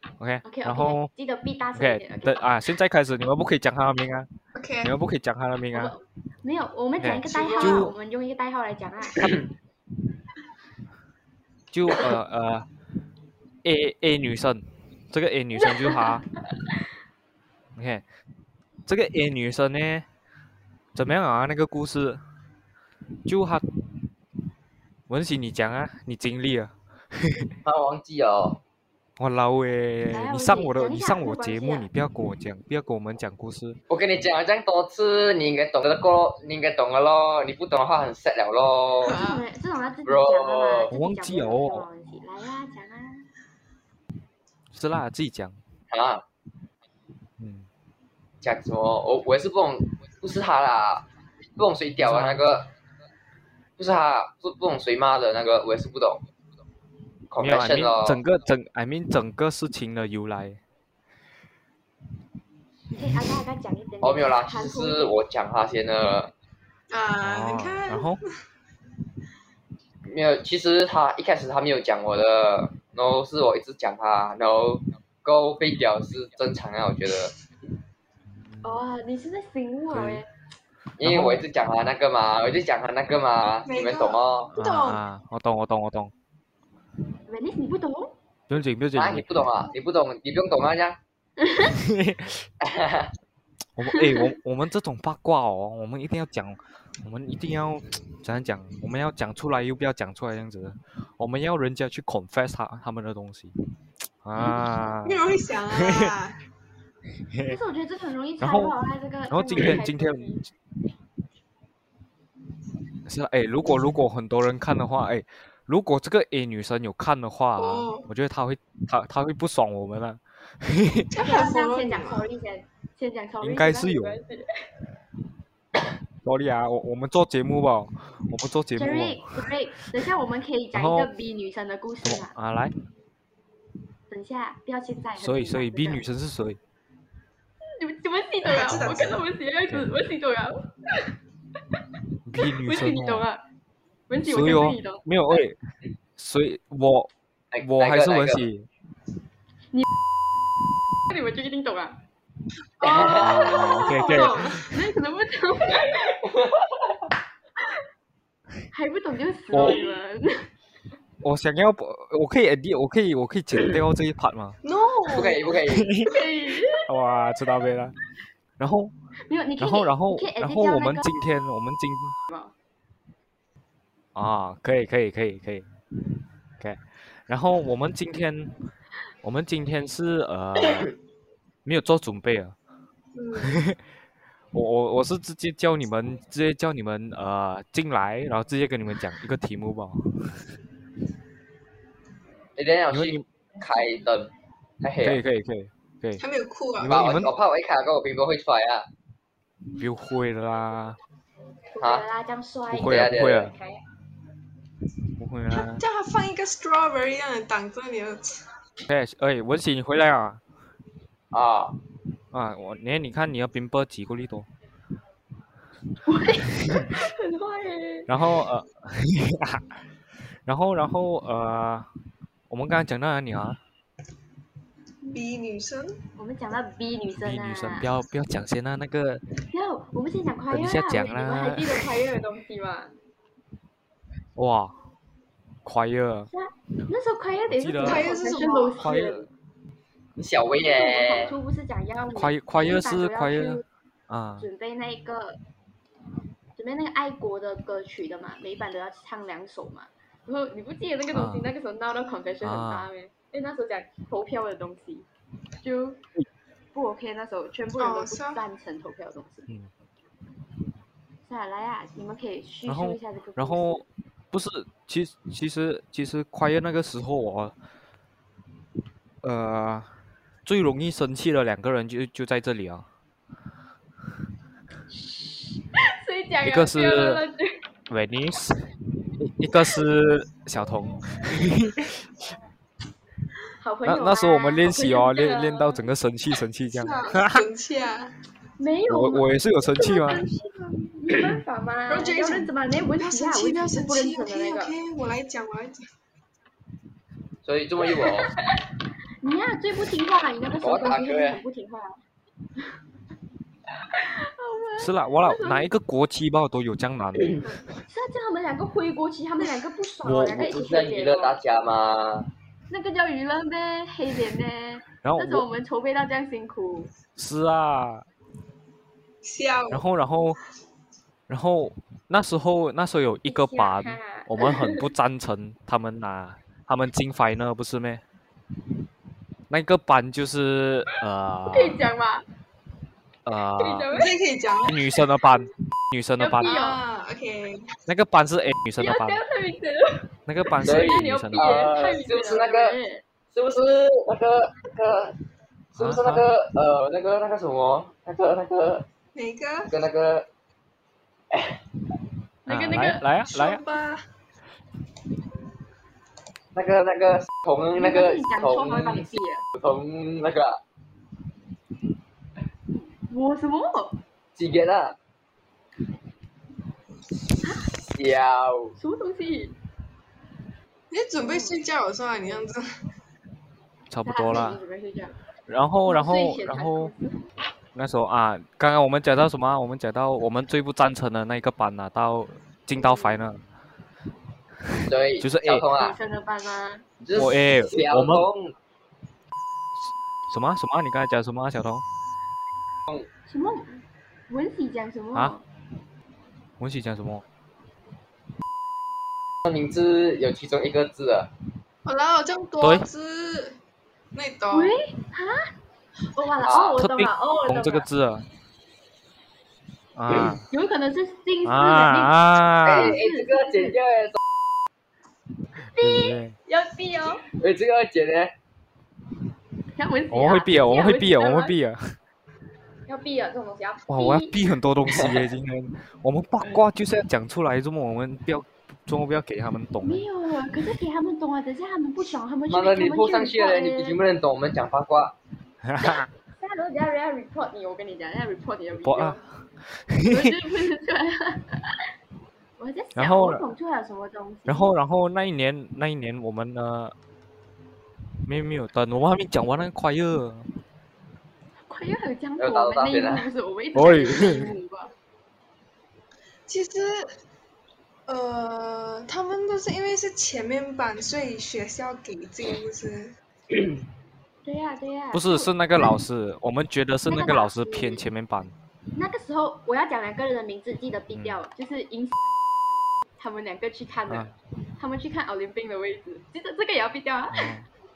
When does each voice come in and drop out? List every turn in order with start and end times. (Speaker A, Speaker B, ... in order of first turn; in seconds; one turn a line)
Speaker A: 0.2-1.1
Speaker B: 0.4-2.4
Speaker A: 1.8-4.3
Speaker C: 4.5-4.9
Speaker A: 4.8-5.9
Speaker B: 5.7-9.3
Speaker A: 7.0-7.9
Speaker C: 7.2-7.9
Speaker A: 11.7-12.7
Speaker A: 13.6-16.2
Speaker B: 15.6-16.6
Speaker A: 17.8-18.0
Speaker A: 18.9-20.1
Speaker A: 20.9-22.2
Speaker A: 23.2-23.6
Speaker A: 25.1-27.5
Speaker D: 27.6-28.6
Speaker A: 29.2-33.8
Speaker B: 30.1-31.9
Speaker D: 33.9-39.2
Speaker C: 39.1-39.4
Speaker B: 39.1-43.3
Speaker D: 40.0-40.9
Speaker A: 40.9-41.9
Speaker A: 44.7-45.6
Speaker D: 45.9-46.2
Speaker A: 47.4-47.7
Speaker D: 48.4-51.1
Speaker D: 51.6-52.7
Speaker A: 52.0-52.4
Speaker D: 53.8-56.2
Speaker D: 57.3-58.2
Speaker A: 57.4-60.6
Speaker B: 62.9-65.2
Speaker D: 64.0-66.3
Speaker C: 66.9-68.3
Speaker A: 67.2-68.2
Speaker D: 70.1-77.3
Speaker A: 78.3-78.8
Speaker B: 78.6-80.3
Speaker A: 79.9-80.2
Speaker D: 81.0-84.5
Speaker A: 81.0-81.4
Speaker C: 83.7-85.0
Speaker A: 84.5-86.1
Speaker B: 87.3-88.2
Speaker A: 88.5-89.3
Speaker D: 89.0-91.0
Speaker B: 91.4-91.7
Speaker A: 91.7-92.5
Speaker D: 92.6-93.1
Speaker A: 93.8-103.5
Speaker B: 94.0-94.2
Speaker A: 104.2-105.2
Speaker B: 104.4-104.8
Speaker C: 105.0-106.4
Speaker A: 105.7-106.1
Speaker A: 107.3-107.6
Speaker B: 107.5-110.4
Speaker A: 108.4-108.8
Speaker A: 109.3-110.4
Speaker A: 113.1-121.1
Speaker C: 117.6-118.1
Speaker C: 121.1-122.3
Speaker B: 121.2-124.5
Speaker A: 123.4-124.2
Speaker A: 126.2-129.5
Speaker B: 128.8-132.3
Speaker A: 130.8-131.1
Speaker A: 132.0-132.7
Speaker B: 134.1-136.0
Speaker A: 135.2-136.6
Speaker B: 137.7-141.1
Speaker C: 138.5-139.2
Speaker A: 138.6-139.9
Speaker A: 142.2-143.2
Speaker B: 142.4-143.4
Speaker B: 144.1-145.1
Speaker A: 144.2-145.6
Speaker A: 146.2-147.1
Speaker D: 147.5-148.5
Speaker A: 147.6-148.7
Speaker B: 151.1-152.0
Speaker C: 152.8-154.8
Speaker D: 152.8-153.6
Speaker B: 152.8-156.1
Speaker A: 153.2-154.6
Speaker D: 155.8-156.7
Speaker B: 158.7-160.5
Speaker A: 159.5-159.8
Speaker A: 161.2-164.6
Speaker C: 164.6-165.5
Speaker D: 165.1-165.9
Speaker A: 165.7-166.2
Speaker B: 166.1-166.9
Speaker A: 166.8-167.9
Speaker A: 168.6-168.9
Speaker B: 169.3-171.1
Speaker A: 169.6-172.2
Speaker A: 174.2-175.7
Speaker A: 176.6-178.5
Speaker A: 179.2-180.9
Speaker A: 181.7-182.6
Speaker C: 183.1-183.6
Speaker A: 183.4-183.8
Speaker A: 184.5-190.4
Speaker D: 192.6-194.3
Speaker A: 192.9-193.2
Speaker D: 194.8-195.2
Speaker A: 195.0-196.2
Speaker C: 196.2-197.1
Speaker A: 196.8-197.3
Speaker D: 196.8-198.9
Speaker A: 199.8-201.0
Speaker B: 201.7-203.8
Speaker D: 201.8-202.1
Speaker A: 202.7-203.5
Speaker D: 202.8-203.5
Speaker A: 205.2-205.8
Speaker C: 205.6-208.4
Speaker A: 208.9-210.4
Speaker D: 211.3-211.8
Speaker A: 212.3-214.5
Speaker B: 216.1-218.1
Speaker A: 218.1-219.7
Speaker A: 220.5-221.9
Speaker A: 222.5-223.6
Speaker C: 225.1-226.0
Speaker B: 226.2-227.9
Speaker A: 227.2-229.2
Speaker B: 229.5-232.9
Speaker A: 230.5-231.9
Speaker A: 234.4-234.8
Speaker A: 235.7-236.3
Speaker B: 236.3-239.3
Speaker A: 237.5-238.1
Speaker C: 237.8-238.9
Speaker A: 238.8-239.3
Speaker D: 240.2-241.3
Speaker B: 240.6-243.7
Speaker A: 242.2-244.5
Speaker B: 244.4-245.4
Speaker B: 246.6-255.1
Speaker A: 251.1-251.5
Speaker A: 252.4-252.9
Speaker B: 255.6-256.0
Speaker B: 256.7-259.5
Speaker C: 257.8-258.4
Speaker B: 261.2-263.9
Speaker A: 262.7-267.5
Speaker A: 269.2-269.9
Speaker A: 270.4-272.9
Speaker B: 274.9-277.6
Speaker A: 276.4-277.2
Speaker A: 277.9-282.1
Speaker B: 283.6-285.9
Speaker A: 283.9-287.4
Speaker C: 286.7-288.1
Speaker B: 288.6-294.7
Speaker A: 288.9-290.2
Speaker C: 291.9-295.9
Speaker D: 297.4-298.4
Speaker B: 297.9-298.6
Speaker B: 299.2-302.0
Speaker D: 300.6-301.4
Speaker B: 303.9-305.7
Speaker A: 304.8-307.4
Speaker B: 307.4-311.4
Speaker A: 310.0-310.5
Speaker D: 310.1-312.3
Speaker B: 312.7-316.9
Speaker A: 315.0-315.5
Speaker A: 317.1-318.1
Speaker C: 319.2-319.9
Speaker A: 319.7-320.4
Speaker A: 321.3-328.0
Speaker B: 323.3-324.8
Speaker A: 329.5-331.8
Speaker B: 331.5-332.2
Speaker A: 333.2-333.9
Speaker B: 333.6-334.1
Speaker C: 333.9-334.8
Speaker A: 334.6-336.5
Speaker B: 336.2-336.8
Speaker C: 336.4-337.7
Speaker A: 337.9-339.2
Speaker B: 338.8-343.0
Speaker A: 340.3-341.6
Speaker D: 340.6-342.8
Speaker D: 343.3-345.1
Speaker D: 345.7-348.9
Speaker A: 345.8-346.2
Speaker C: 349.1-349.7
Speaker D: 349.7-350.3
Speaker D: 351.3-351.6
Speaker B: 352.5-353.0
Speaker A: 352.5-353.6
Speaker C: 353.3-354.0
Speaker D: 356.5-360.6
Speaker B: 357.8-359.4
Speaker B: 363.1-364.0
Speaker D: 364.4-365.0
Speaker B: 367.4-367.7
Speaker D: 367.9-368.8
Speaker B: 368.8-369.6
Speaker C: 370.9-372.7
Speaker B: 371.2-371.6
Speaker A: 373.9-374.6
Speaker B: 374.1-375.2
Speaker A: 375.5-376.9
Speaker B: 375.9-377.3
Speaker A: 377.8-383.4
Speaker B: 382.8-383.2
Speaker D: 384.9-386.0
Speaker A: 385.2-385.6
Speaker B: 385.7-386.9
Speaker D: 387.0-388.5
Speaker A: 387.1-388.3
Speaker A: 390.3-391.8
Speaker B: 393.3-395.4
Speaker A: 396.6-397.2
Speaker D: 399.4-401.3
Speaker C: 401.9-403.6
Speaker A: 402.6-402.9
Speaker C: 404.1-404.8
Speaker B: 404.5-405.5
Speaker B: 406.1-407.9
Speaker D: 406.4-406.8
Speaker A: 406.8-408.3
Speaker A: 410.0-410.4
Speaker B: 410.5-413.8
Speaker A: 411.4-413.0
Speaker D: 412.6-414.2
Speaker B: 415.7-417.3
Speaker A: 415.8-416.4
Speaker D: 417.3-418.3
Speaker B: 419.8-421.6
Speaker A: 420.1-422.0
Speaker B: 422.9-424.4
Speaker A: 423.9-430.0
Speaker D: 424.9-425.2
Speaker B: 429.8-434.0
Speaker D: 432.5-435.1
Speaker A: 435.6-436.1
Speaker B: 436.4-439.2
Speaker A: 438.8-440.4
Speaker B: 440.1-441.9
Speaker B: 442.6-444.7
Speaker A: 443.0-443.4
Speaker A: 444.5-446.9
Speaker A: 448.3-450.5
Speaker B: 451.7-454.9
Speaker D: 452.4-453.3
Speaker A: 453.8-454.5
Speaker C: 456.5-457.1
Speaker C: 458.1-463.1
Speaker B: 464.4-465.5
Speaker A: 465.1-468.5
Speaker B: 467.1-468.0
Speaker B: 468.9-472.2
Speaker B: 473.2-477.6
Speaker A: 477.3-477.6